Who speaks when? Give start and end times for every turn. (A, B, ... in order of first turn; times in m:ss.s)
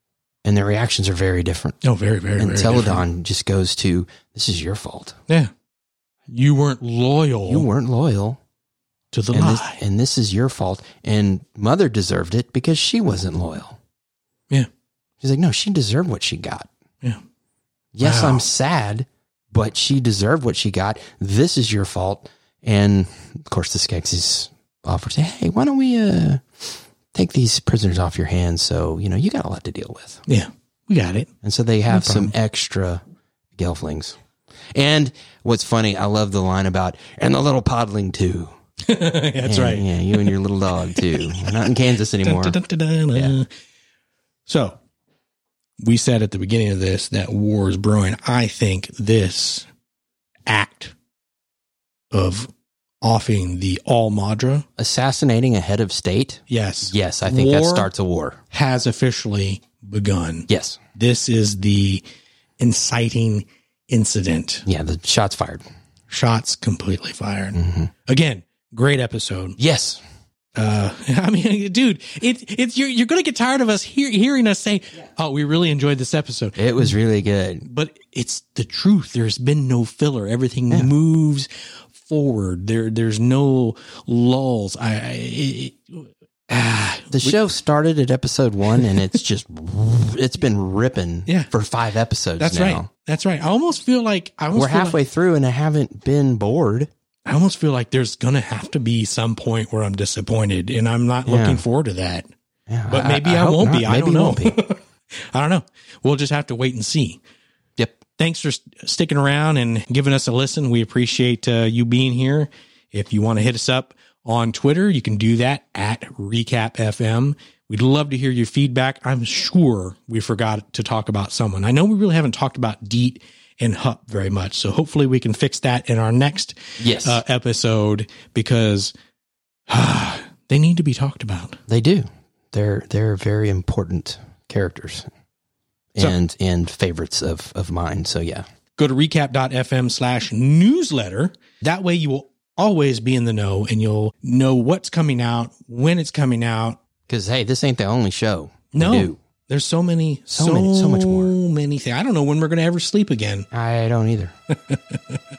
0:00.4-0:01.8 A
0:01.8-0:03.0 B
0:02.4-0:05.2 A
0:06.3-0:07.7 B
0:07.5-0:08.4 A
0:09.1-0:09.8 B
0:09.3-0:13.8 A
0:15.2-0:16.7 A
0:17.9-0:30.2 A
0:18.0-0:18.4 B
0:30.3-0:31.3 B
0:31.4-0:33.0 A
0:31.9-0:32.3 B
0:33.6-0:34.2 A
0:34.7-0:38.5 A
0:38.8-0:40.4 B
0:39.4-0:42.6 A
0:40.9-0:41.6 B
0:42.2-0:43.5 B
0:44.4-0:44.8 B
0:45.8-0:49.7 B
0:50.5-0:50.9 B
0:52.1-0:52.5 B
0:53.0-0:54.6 B
0:54.8-0:58.4 A
0:56.5-0:57.9 B
0:58.5-1:02.0 B
1:00.5-1:00.8 A
1:02.6-1:04.6 B
1:04.6-1:05.6 A
1:06.1-1:09.6 B
1:07.5-1:07.9 A
1:09.6-1:10.0 A
1:10.5-1:16.6 B
1:16.6-1:17.6 A
1:17.6-1:27.3 B
1:27.1-1:32.9 A
1:32.4-1:35.0 B
1:34.5-1:36.9 A
1:37.2-1:42.3 B
1:41.2-1:41.6 A
1:42.7-1:44.6 A
1:42.9-1:47.2 B
1:47.8-1:48.0 A
1:48.2-2:08.9 B
2:06.8-2:07.2 A
2:09.7-2:11.6 B
2:11.7-2:15.1 A
2:15.9-2:18.4 A
2:18.8-2:26.8 B
2:27.1-2:29.2 A
2:28.7-2:33.5 B
2:30.3-2:31.3 A
2:33.5-2:34.3 A
2:34.5-2:35.2 B